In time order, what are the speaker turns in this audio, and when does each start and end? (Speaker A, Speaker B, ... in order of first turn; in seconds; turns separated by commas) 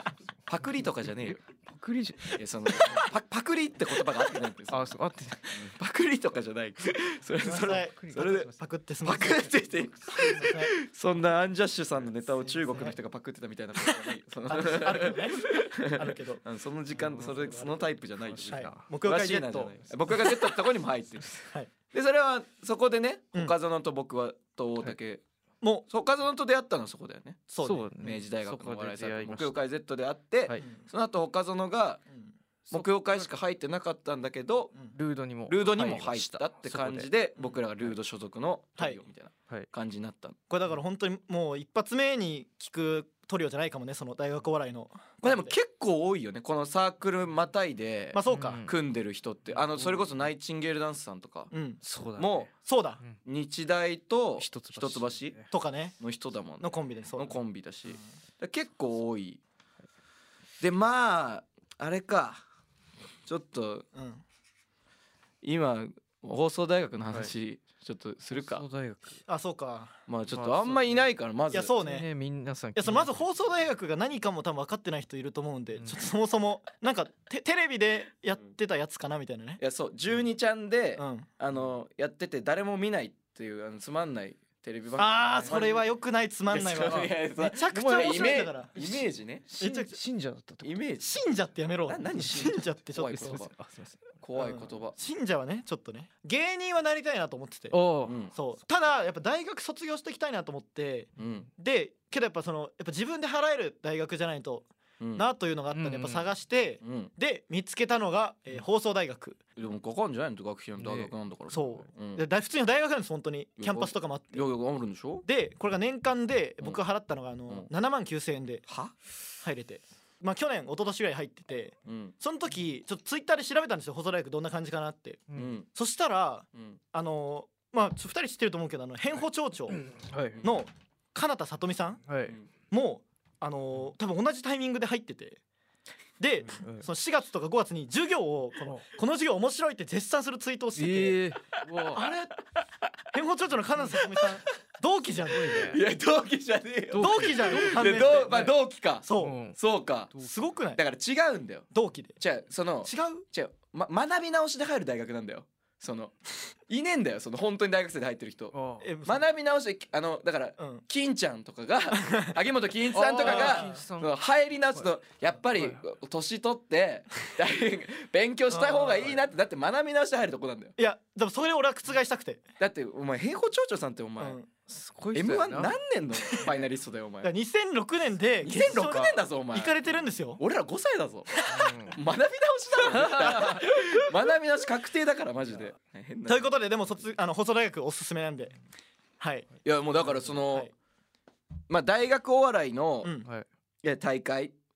Speaker A: 0.5-1.4, Speaker B: 1.0-3.0, Speaker A: 2.3-4.9, Speaker B: 4.7-5.6, Speaker A: 5.5-8.5, Speaker C: 7.4-9.5, Speaker B: 7.5-8.6, Speaker A: 9.0-25.2, Speaker C: 10.1-10.7, Speaker C: 12.7-13.0, Speaker C: 14.5-16.4, Speaker B: 16.9-18.9, Speaker C: 18.5-19.8, Speaker C: 25.6-25.9, Speaker A: 25.9-27.5, Speaker C: 27.5-27.9, Speaker B: 27.6-29.6, Speaker A: 28.0-32.0, Speaker C: 30.6-30.9, Speaker B: 32.7-33.3, Speaker A: 32.7-34.7, Speaker B: 34.9-37.1, Speaker A: 35.5-40.4, Speaker C: 40.5-45.5, Speaker A: 45.2-51.5, Speaker C: 48.1-48.6, Speaker B: 48.3-48.8, Speaker B: 49.5-50.1, Speaker C: 51.5-51.8, Speaker B: 51.8-52.5, Speaker A: 52.2-52.5, Speaker C: 52.6-53.0, Speaker A: 53.2-55.4, Speaker B: 54.4-55.5, Speaker C: 55.5-56.0, Speaker A: 56.0-59.4, Speaker C: 56.6-57.4, Speaker A: 60.6-62.4, Speaker A: 63.2-63.9, Speaker C: 63.9-64.2, Speaker A: 65.4-68.6, Speaker B: 68.3-69.2, Speaker C: 69.3-70.0, Speaker A: 70.1-71.7, Speaker B: 70.3-71.1, Speaker C: 71.5-72.1, Speaker B: 71.8-73.2, Speaker C: 72.8-79.6, Speaker A: 79.6-85.8, Speaker C: 81.0-81.3, Speaker C: 85.0-88.7, Speaker A: 86.5-89.5, Speaker B: 86.9-87.1, Speaker B: 87.7-90.8, Speaker C: 89.6-90.0, Speaker A: 90.6-91.1, Speaker C: 91.0-93.4, Speaker A: 91.9-93.5, Speaker B: 93.0-94.1, Speaker A: 94.2-94.9, Speaker C: 94.4-97.8, Speaker B: 97.7-98.2, Speaker A: 98.0-98.3, Speaker C: 98.3-109.4, Speaker A: 101.2-101.5, Speaker A: 105.0-105.2, Speaker B: 105.7-106.2, Speaker A: 106.8-107.1, Speaker A: 109.6-112.2, Speaker B: 110.8-111.6, Speaker C: 111.5-114.4, Speaker A: 113.6-115.2, Speaker C: 115.2-118.6, Speaker A: 118.7-118.9, Speaker C: 119.4-125.2, Speaker A: 121.8-122.1, Speaker A: 125.3-125.7, Speaker C: 125.7-129.8, Speaker B: 129.8-130.4, Speaker C: 130.4-132.0, Speaker B: 132.1-132.4, Speaker C: 132.7-135.4, Speaker C: 136.2-141.2, Speaker B: 136.6-136.8, Speaker B: 140.8-142.0, Speaker C: 141.9-142.3, Speaker C: 143.1-145.7, Speaker B: 145.3-145.8, Speaker A: 145.6-150.1, Speaker B: 146.9-148.5, Speaker C: 146.9-148.5, Speaker C: 149.0-149.4, Speaker B: 149.2-149.6, Speaker C: 150.2-150.8, Speaker A: 150.8-151.7, Speaker C: 151.7-152.2, Speaker A: 152.2-170.7, Speaker C: 152.8-153.2, Speaker B: 158.5-158.9, Speaker C: 158.8-159.2, Speaker C: 160.6-160.8, Speaker C: 162.0-162.3, Speaker B: 162.9-164.1, Speaker C: 163.1-163.8, Speaker B: 165.5-165.8, Speaker C: 168.5-169.1, Speaker C: 170.8-172.4, Speaker A: 172.6-174.4, Speaker C: 174.2-174.5, Speaker B: 174.7-175.8, Speaker A: 175.1-177.3, Speaker C: 177.2-180.4, Speaker A: 178.4-179.7, Speaker B: 178.8-179.1, Speaker A: 180.4-186.5, Speaker C: 181.4-181.7, Speaker B: 181.5-182.0, Speaker B: 182.9-183.7, Speaker C: 186.3-188.6, Speaker C: 189.2-190.7, Speaker A: 189.6-190.7, Speaker A: 191.7-193.1, Speaker A: 193.8-194.6